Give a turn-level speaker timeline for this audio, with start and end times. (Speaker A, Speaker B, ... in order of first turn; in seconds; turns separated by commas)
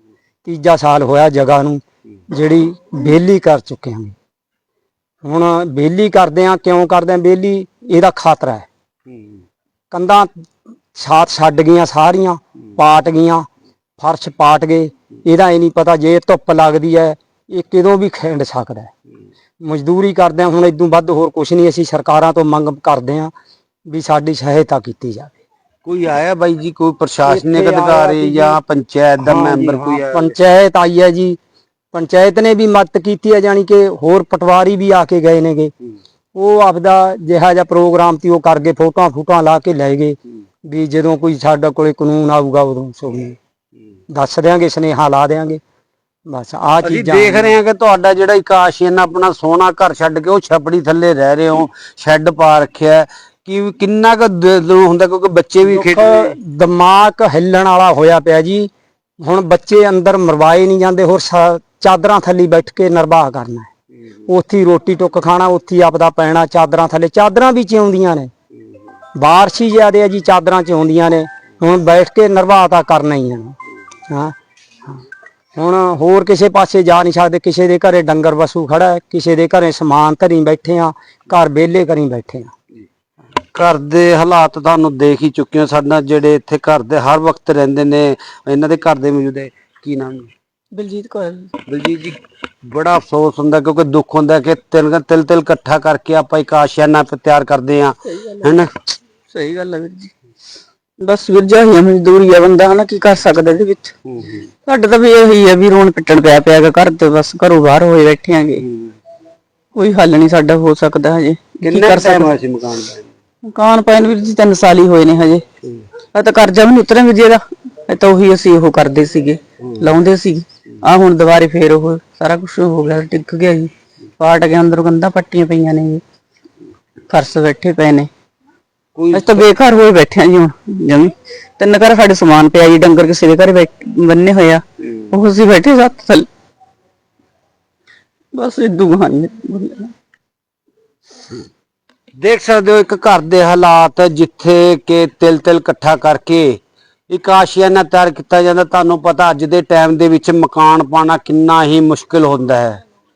Speaker A: 0.4-4.1, Speaker A: 5.2-8.7, Speaker A: 9.9-10.3, Speaker A: 10.9-13.4, Speaker A: 14.0-18.9, Speaker A: 19.6-23.3, Speaker A: 23.9-25.3, Speaker B: 25.8-30.3, Speaker A: 27.2-28.6, Speaker A: 29.2-31.4, Speaker A: 31.9-35.7, Speaker A: 36.3-40.2, Speaker A: 40.7-43.4, Speaker A: 44.1-45.6, Speaker A: 46.3-47.6, Speaker B: 46.8-56.3, Speaker A: 55.6-58.7, Speaker A: 59.2-63.7, Speaker A: 64.3-68.3, Speaker A: 69.2-73.5, Speaker A: 74.1-74.3, Speaker A: 75.6-82.5, Speaker B: 83.5-90.3, Speaker C: 90.7-91.5, Speaker B: 91.7-98.7, Speaker C: 98.3-98.6, Speaker C: 99.3-100.1, Speaker C: 101.0-103.9, Speaker B: 104.0-104.4, Speaker C: 104.6-108.6, Speaker B: 108.6-108.9, Speaker C: 109.7-112.3, Speaker B: 111.6-113.0, Speaker C: 113.5-115.4, Speaker C: 116.1-126.0, Speaker B: 119.6-119.9, Speaker C: 127.1-128.1, Speaker B: 128.9-129.4, Speaker C: 129.1-136.3, Speaker C: 138.3-139.9, Speaker B: 142.2-152.8